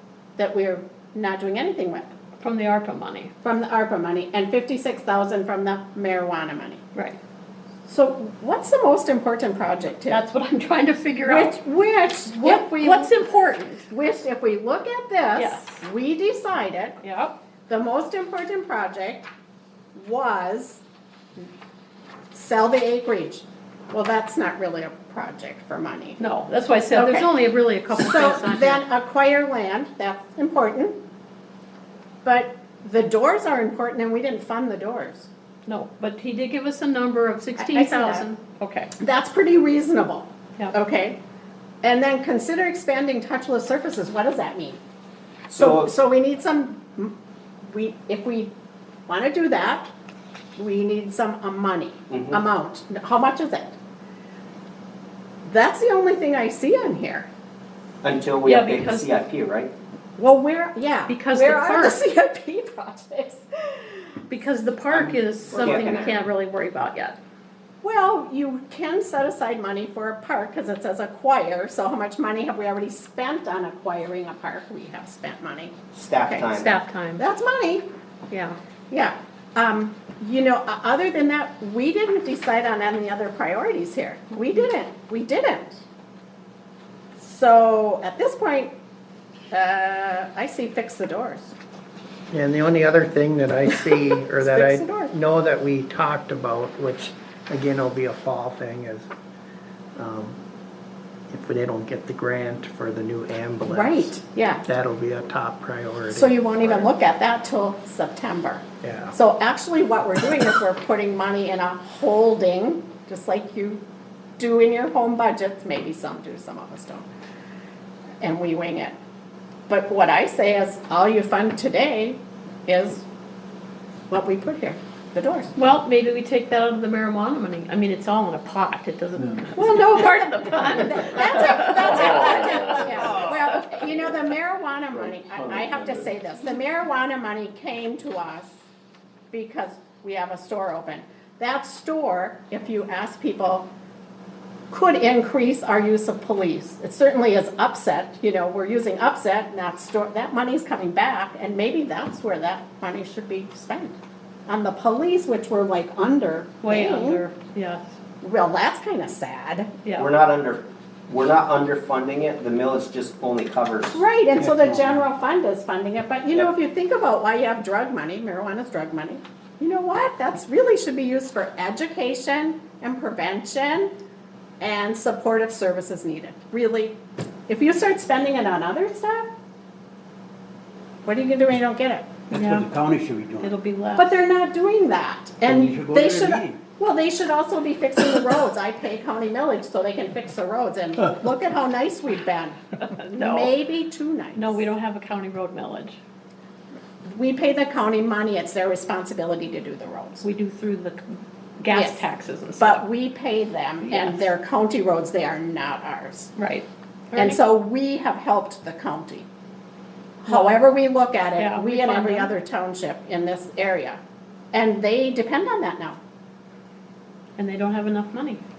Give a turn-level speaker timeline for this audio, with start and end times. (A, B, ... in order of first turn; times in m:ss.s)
0:00.4-0:02.1 A
0:02.4-0:03.3 B
0:03.4-0:06.8 A
0:07.9-0:10.2 A
0:10.1-0:11.6 B
0:11.2-0:13.1 A
0:12.4-0:13.9 B
0:13.9-0:17.0 A
0:15.4-0:15.8 B
0:17.0-0:17.4 B
0:17.7-0:19.3 A
0:20.0-0:20.8 A
0:22.3-0:26.2 A
0:26.2-0:28.8 B
0:26.9-0:27.3 A
0:27.9-0:30.9 A
0:32.2-0:35.3 A
0:35.7-0:38.9 B
0:37.6-0:38.3 A
0:39.0-0:41.2 A
0:41.8-0:44.8 A
0:45.5-0:45.9 C
0:45.6-0:47.1 A
0:47.6-0:48.5 A
0:49.1-0:49.9 A
0:50.6-0:53.8 A
0:52.1-0:52.4 C
0:55.5-0:57.3 A
0:58.0-0:59.7 C
0:58.4-0:59.1 B
1:00.2-1:04.0 A
1:01.1-1:02.0 B
1:04.3-1:07.2 B
1:04.9-1:06.1 C
1:05.5-1:06.2 A
1:07.8-1:16.5 A
1:15.9-1:16.8 C
1:16.5-1:17.2 B
1:17.2-1:17.9 A
1:18.3-1:18.6 B
1:18.9-1:25.8 A
1:27.2-1:28.7 A
1:29.5-1:31.6 A
1:32.3-1:39.1 D
1:33.9-1:35.1 A
1:40.0-1:40.4 D
1:41.3-1:46.9 D
1:43.7-1:44.6 A
1:46.1-1:53.8 A
1:48.8-1:49.1 D
1:54.4-1:57.0 A
1:58.2-1:59.0 A
1:59.7-2:03.0 A
2:04.1-2:05.5 A
2:05.6-2:12.3 B
2:09.6-2:18.5 A
2:14.9-2:16.0 C
2:19.3-2:23.7 A
2:24.7-2:37.2 A
2:36.6-2:37.9 B
2:38.2-2:39.7 A
2:39.8-2:40.1 B
2:40.0-2:44.0 C
2:43.9-2:53.9 A
2:44.4-2:45.0 E
2:54.6-2:59.3 A
3:01.1-3:02.1 A
3:02.3-3:03.5 E
3:02.3-3:02.7 B
3:03.4-3:04.2 B
3:04.0-3:14.6 A
3:05.5-3:06.6 E
3:12.8-3:13.5 B
3:14.4-3:16.0 B
3:17.0-3:20.3 A
3:20.2-3:21.1 B
3:21.6-3:22.8 B
3:21.7-3:22.0 A
3:22.6-3:26.3 A
3:23.9-3:24.3 B
3:26.4-3:27.4 B
3:27.2-3:29.3 A
3:30.2-3:34.0 A
3:30.3-3:30.6 B
3:31.4-3:32.3 B
3:34.5-3:36.0 A
3:37.4-3:38.4 B